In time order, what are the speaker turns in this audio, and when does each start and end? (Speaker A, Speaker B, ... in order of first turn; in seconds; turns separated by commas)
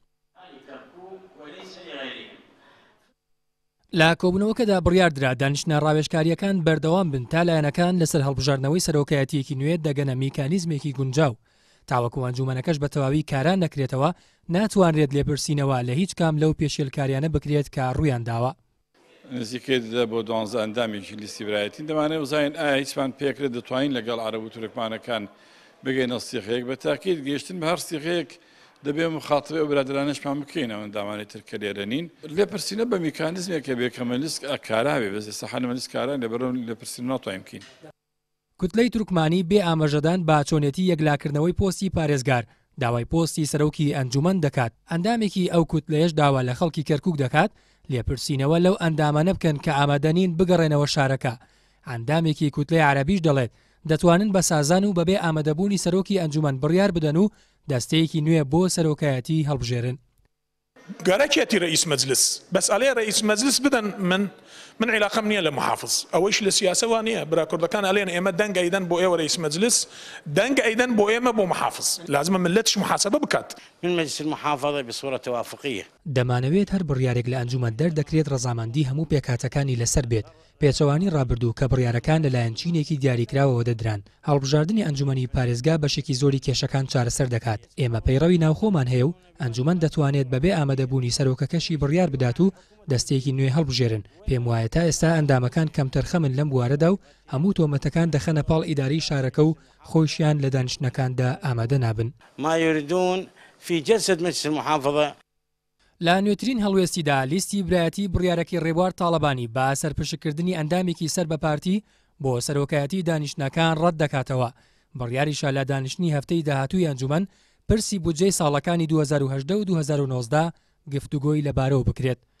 Speaker A: 0.4-2.4, Speaker B: 3.9-11.3, Speaker B: 11.9-18.5, Speaker C: 19.3-25.3, Speaker C: 25.8-37.6, Speaker B: 38.6-51.4, Speaker B: 51.9-60.0, Speaker D: 61.0-73.6, Speaker A: 73.8-75.9, Speaker B: 76.1-102.1, Speaker A: 102.4-105.1, Speaker B: 106.0-122.2